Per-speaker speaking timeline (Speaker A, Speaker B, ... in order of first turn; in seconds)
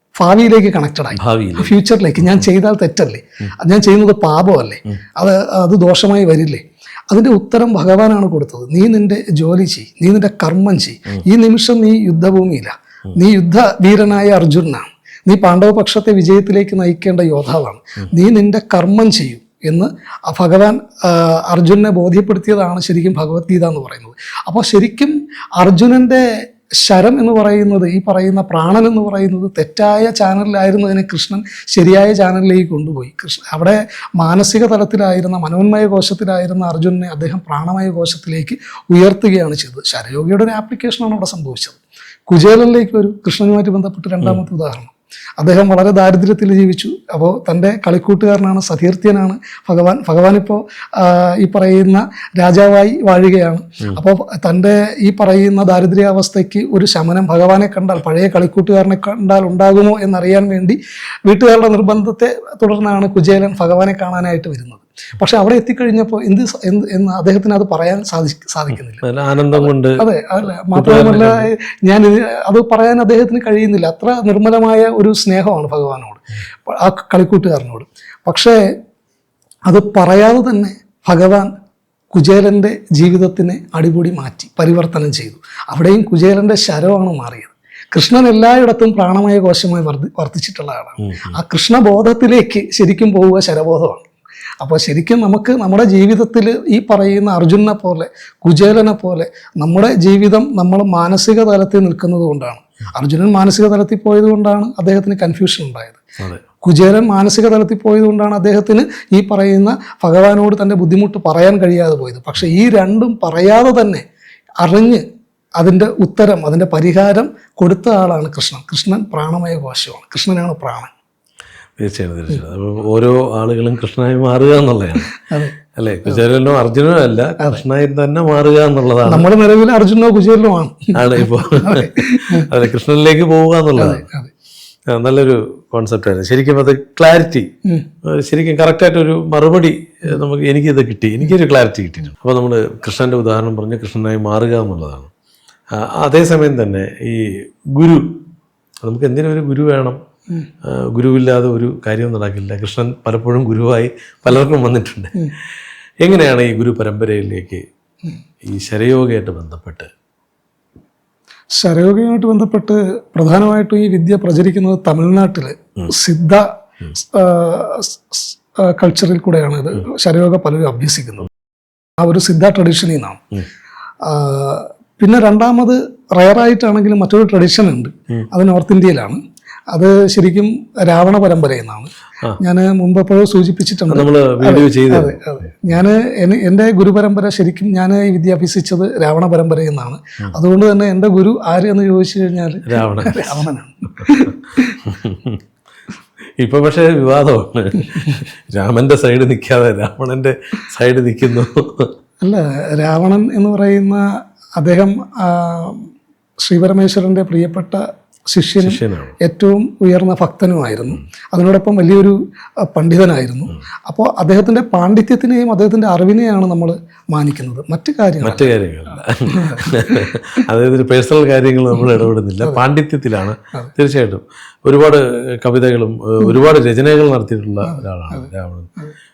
Speaker A: 0.2-78.6, 79.7-81.5, 82.1-94.1, 94.6-106.0, 106.6-114.0, 114.6-115.0, 115.6-120.9, 125.2-125.5, 129.1-132.5, 133.8-134.3, 161.6-171.3, 172.0-173.2, 174.0-179.2, 179.7-194.8, 202.2-205.9, 206.4-218.5, 219.3-220.1, 227.7-228.2
Speaker B: 1.1-1.8, 69.0-70.1, 70.7-71.5, 91.0-91.4, 121.8-125.2, 125.7-129.3, 130.9-134.1, 134.9-137.5, 138.1-145.1, 145.7-148.2, 148.8-150.0, 150.6-155.3, 156.0-157.6, 158.4-159.9, 183.9-185.2, 192.7-193.5, 194.8-195.4, 196.4-201.9, 208.6-209.2, 218.2-228.7